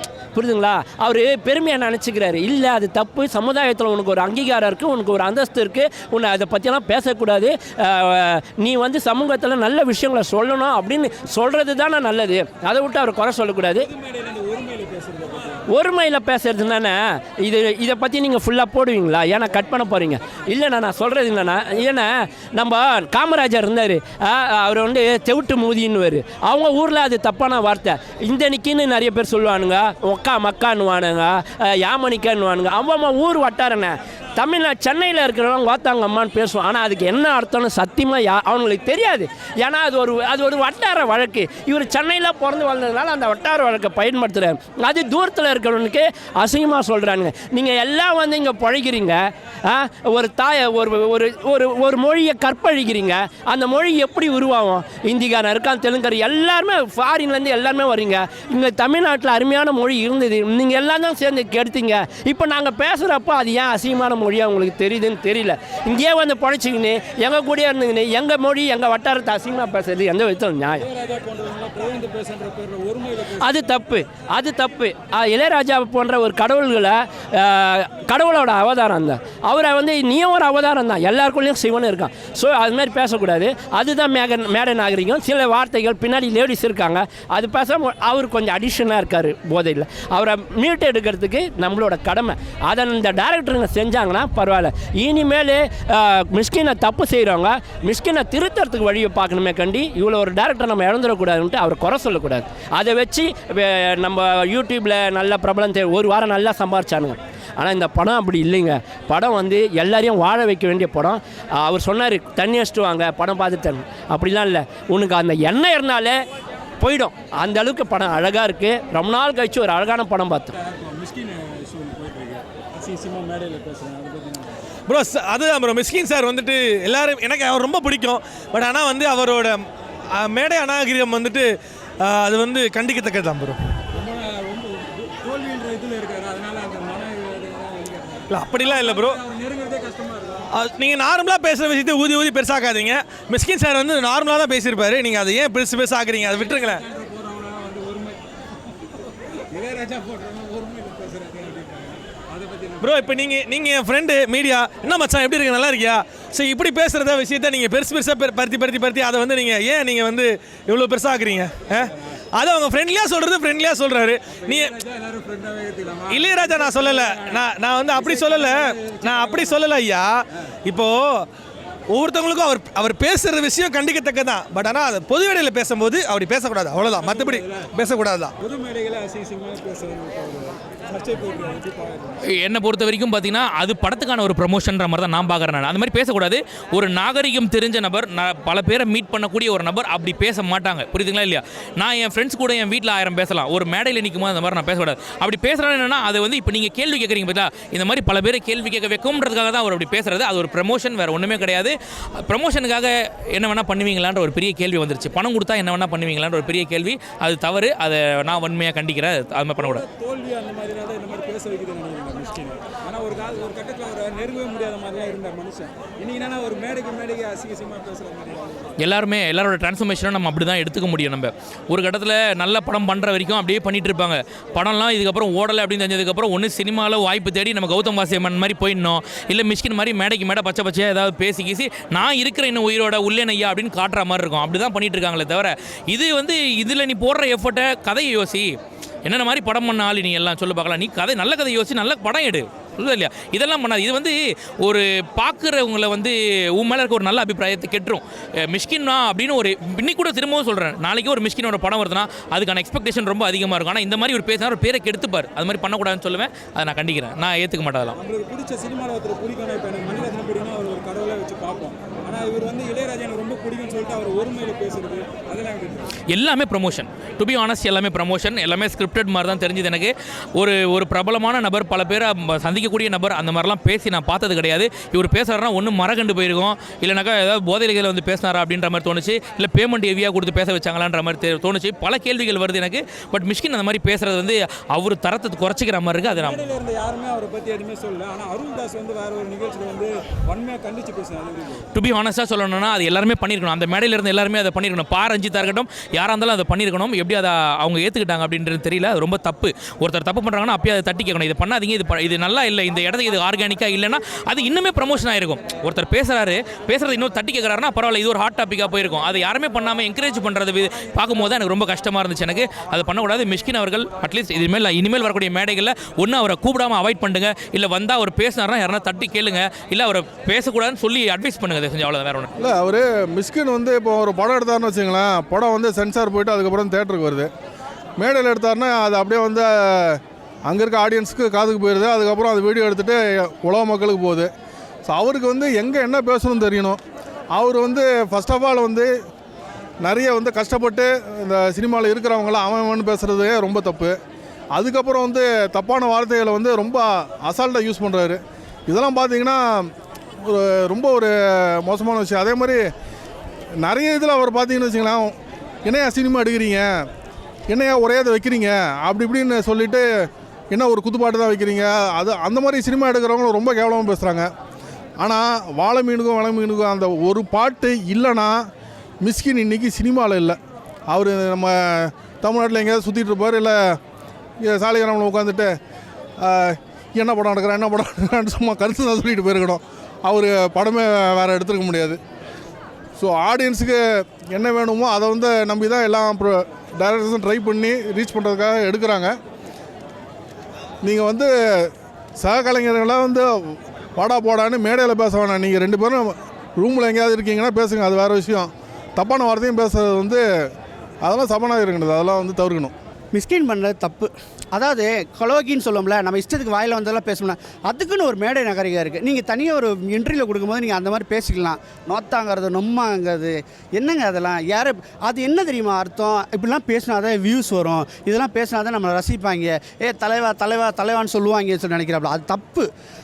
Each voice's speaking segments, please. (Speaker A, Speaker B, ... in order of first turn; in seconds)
Speaker A: 0.3-13.9, 15.7-70.9, 73.4-116.2, 116.8-120.5
Speaker B: 13.8-15.7, 70.8-73.5, 120.6-124.6, 133.9-140.5, 146.2-148.2, 149.5-153.2, 161.7-161.9, 164.3-169.7, 176.9-177.7, 178.4-182.2, 209.6-218.7, 257.9-265.9, 286.1-291.7
Speaker C: 124.9-133.8, 138.3-139.2, 140.5-146.8, 152.8-164.7, 166.1-171.3, 171.9-178.3
Speaker D: 182.3-209.8, 218.8-257.9, 266.1-286.4, 291.7-322.3
Speaker E: 322.4-327.3, 328.0-334.3, 334.9-336.8, 337.3-338.9, 339.8-344.0, 344.5-349.7, 350.2-352.6, 353.6-356.8, 357.5-364.3, 365.0-368.5, 369.0-373.8, 374.4-375.5, 376.2-382.0, 383.0-389.2, 390.8-400.2, 401.0-402.7
Speaker F: 403.1-422.7